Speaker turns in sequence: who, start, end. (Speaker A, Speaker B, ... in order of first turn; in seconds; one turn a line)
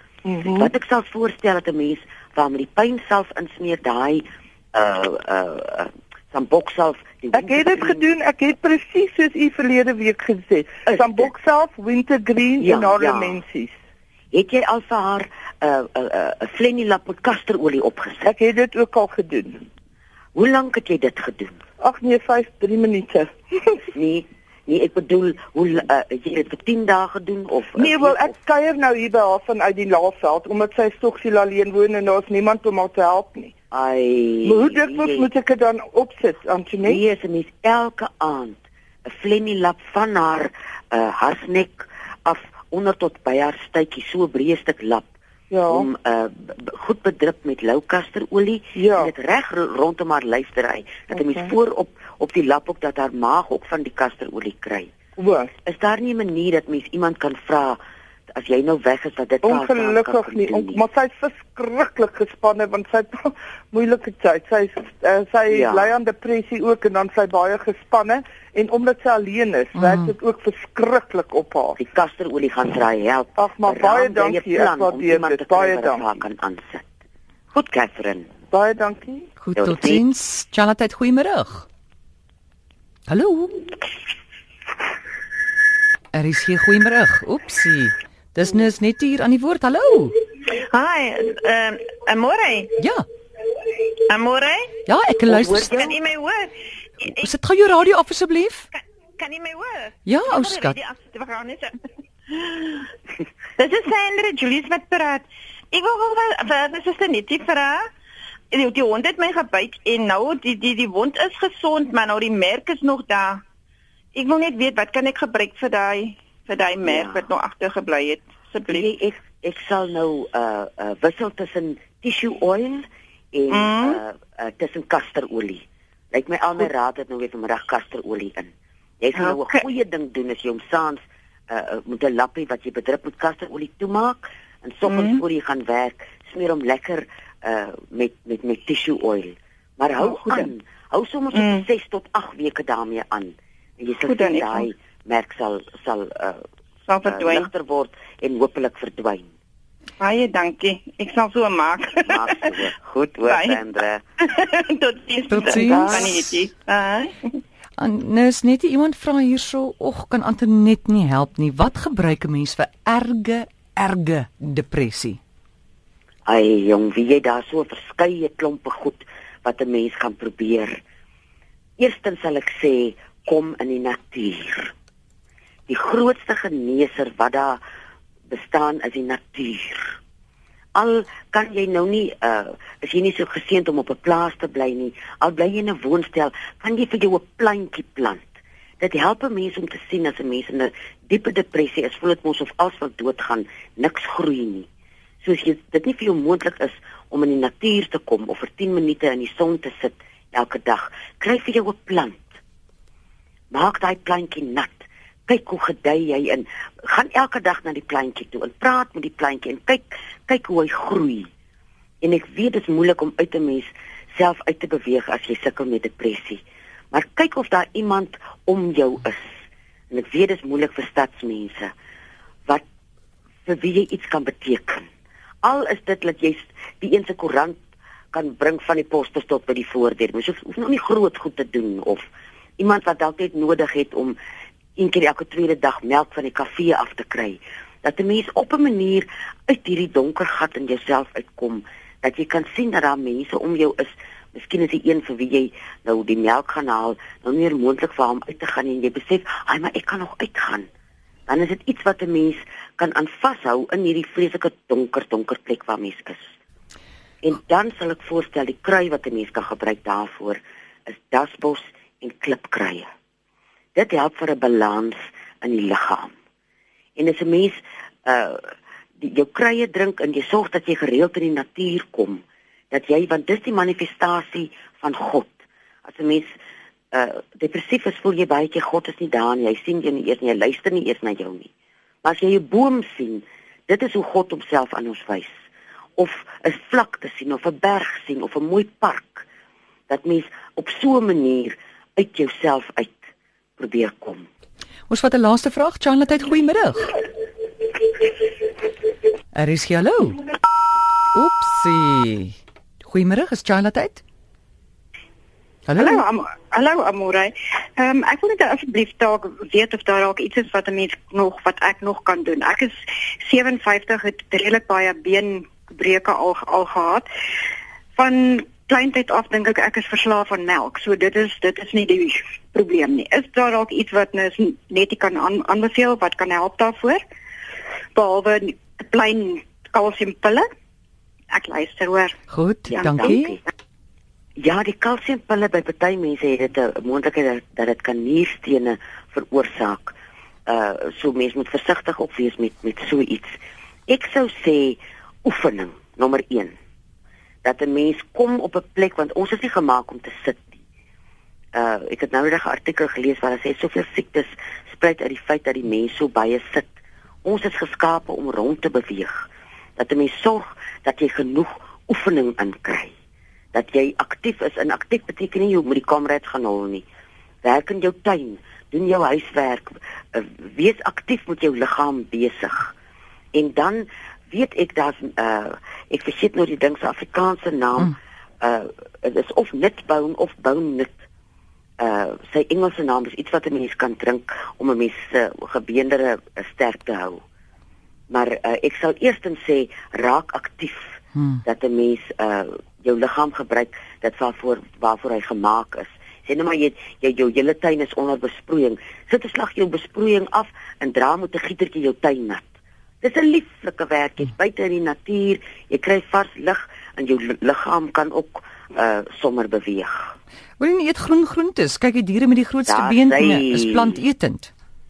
Speaker A: 0.2-0.7
Speaker B: 0.4-4.2
Speaker B: 4.7-8.1
Speaker A: 7.4-13.7
Speaker B: 10.9-11.3
Speaker B: 12.6-13.4
Speaker B: 14.3-18.3
Speaker A: 18.2-19.7
Speaker B: 20.4-21.6
Speaker A: 21.8-23.9
Speaker B: 23.9-28.3
Speaker A: 27.8-33.5
Speaker B: 33.7-35.3
Speaker A: 34.4-37.0
Speaker B: 36.8-45.1
Speaker A: 45.5-45.9
Speaker B: 45.7-54.9
Speaker A: 48.7-49.1
Speaker A: 51.2-51.5
Speaker A: 55.2-55.5
Speaker B: 55.7-57.8
Speaker B: 58.3-60.8
Speaker A: 59.4-71.8
Speaker B: 65.5-65.9
Speaker C: 69.8-70.1
Speaker B: 71.8-76.9
Speaker A: 73.4-76.0
Speaker B: 77.5-78.3
Speaker A: 78.5-79.3
Speaker C: 79.4-81.7
Speaker B: 79.6-80.0
Speaker C: 83.1-83.6
Speaker C: 86.1-90.2
Speaker D: 90.5-92.7
Speaker C: 92.8-93.0
Speaker D: 94.0-94.7
Speaker C: 94.9-95.8
Speaker B: 95.3-96.0
Speaker D: 95.6-97.2
Speaker C: 97.0-98.7
Speaker D: 99.2-101.8
Speaker C: 100.1-100.8
Speaker D: 102.3-102.8
Speaker D: 103.6-107.8
Speaker D: 108.5-113.4
Speaker D: 114.2-118.9
Speaker B: 116.8-117.3
Speaker B: 118.7-128.5
Speaker D: 123.5-124.0
Speaker B: 129.0-131.0
Speaker D: 129.2-129.6
Speaker B: 131.5-146.4
Speaker D: 134.9-135.2
Speaker D: 140.0-140.4
Speaker D: 141.3-141.7
Speaker D: 144.1-144.7
Speaker D: 146.9-147.5
Speaker B: 147.1-149.3
Speaker D: 150.0-152.3
Speaker B: 152.0-154.0
Speaker D: 153.3-153.6
Speaker D: 154.3-157.4
Speaker C: 155.3-156.2
Speaker B: 155.5-156.1
Speaker C: 157.8-165.2
Speaker B: 166.3-170.8
Speaker B: 171.8-174.7
Speaker B: 175.7-177.6
Speaker B: 178.3-180.0
Speaker B: 180.8-188.2
Speaker B: 188.8-194.7
Speaker B: 195.2-202.4
Speaker B: 203.5-211.3
Speaker B: 212.0-216.4
Speaker B: 216.9-219.3
Speaker B: 219.9-221.7
Speaker B: 223.5-224.9
Speaker B: 225.4-227.6
Speaker B: 228.1-232.1
Speaker B: 232.6-234.2
Speaker B: 234.8-250.7
Speaker B: 251.3-256.3
Speaker B: 257.2-262.9
Speaker B: 263.8-266.1
Speaker B: 267.0-268.5
Speaker B: 269.0-275.3
Speaker B: 275.9-276.3
Speaker B: 276.9-281.5
Speaker B: 282.0-285.3
Speaker B: 286.0-289.3
Speaker B: 289.9-293.1
Speaker B: 293.6-294.3
Speaker C: 294.9-296.9
Speaker C: 299.3-300.2
Speaker C: 301.1-304.0
Speaker C: 305.7-306.0
Speaker E: 305.8-317.1
Speaker E: 318.0-327.0
Speaker E: 327.9-330.5
Speaker E: 331.3-332.2
Speaker C: 332.3-333.4
Speaker B: 332.7-333.4
Speaker B: 334.4-340.0
Speaker B: 340.5-346.5
Speaker B: 347.4-350.6
Speaker B: 351.5-356.7
Speaker B: 357.2-362.9
Speaker B: 363.5-366.9
Speaker B: 367.4-372.7
Speaker B: 373.3-380.9
Speaker B: 381.8-387.2
Speaker B: 388.1-402.5
Speaker C: 391.2-391.4
Speaker B: 403.0-410.1
Speaker C: 410.6-414.5
Speaker B: 412.7-414.0